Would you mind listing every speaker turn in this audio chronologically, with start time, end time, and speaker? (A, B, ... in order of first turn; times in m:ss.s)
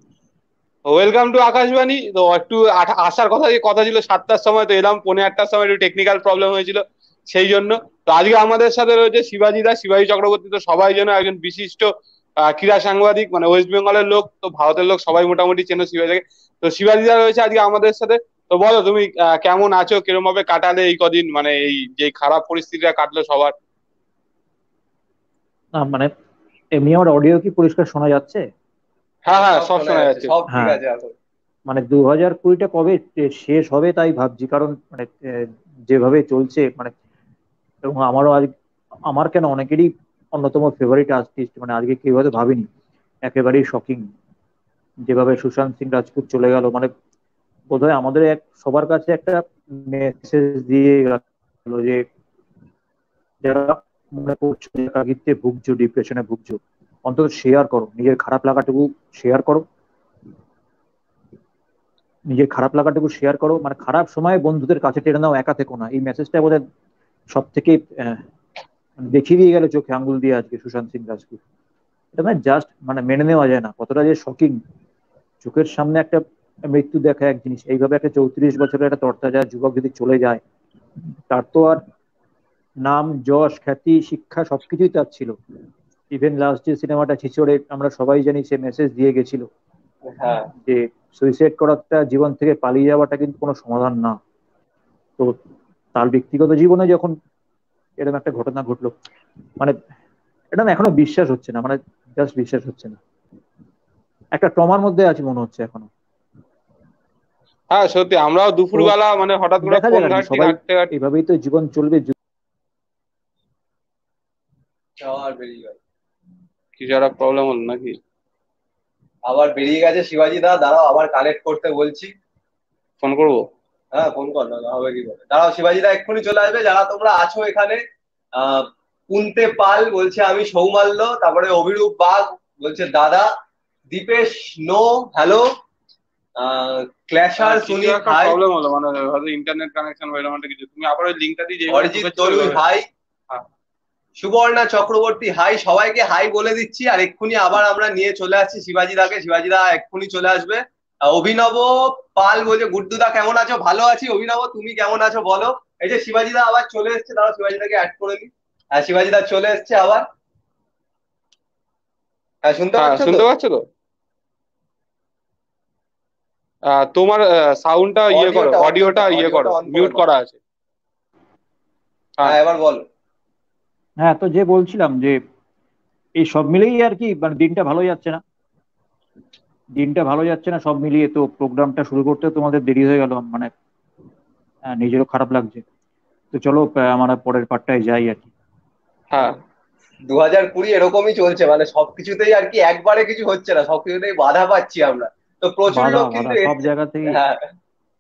0:00.9-0:23.5 A
0:25.8-0:26.1 B
0:26.7-0:28.4 B
0:29.3-0:30.3 A
0:29.3-0:31.2 C
0:30.5-0:30.8 B
0:31.7-0:36.9 B
0:37.8-0:38.5 B
0:39.1-0:42.7 B
0:43.2-0:44.1 B
0:45.1-0:46.9 B
0:47.7-0:52.1 B
0:53.4-0:59.6 B
1:02.3-1:06.6 B
1:07.3-1:08.2 B
1:09.0-1:11.4 B
1:12.1-1:14.6 B
1:15.4-1:20.4 B
1:21.3-1:21.8 B
1:22.8-1:25.4 B
1:26.1-1:29.5 B
1:30.1-1:30.5 C
1:30.3-1:34.2 B
1:35.9-1:37.2 B
1:38.0-1:38.9 B
1:40.5-1:43.0 B
1:44.3-1:45.9 B
1:47.7-1:50.9 A
1:49.6-1:52.1 B
1:55.0-1:55.8 C
1:56.8-1:58.0 A
1:59.3-2:02.1 C
2:03.0-2:03.5 A
2:03.9-2:07.8 C
2:08.4-2:13.3 C
2:13.9-2:15.5 C
2:16.4-2:18.4 C
2:17.4-2:22.6 A
2:21.7-2:22.9 C
2:24.2-2:40.1 C
2:42.4-2:43.2 C
2:42.8-2:43.6 A
2:46.7-2:50.4 A
2:48.1-2:50.0 C
2:52.2-2:52.8 C
2:54.0-2:55.2 B
2:56.2-2:58.2 B
2:59.8-3:03.5 B
3:04.6-3:05.6 B
3:06.3-3:08.3 B
3:09.1-3:09.4 A
3:10.1-3:17.5 C
3:15.7-3:17.2 B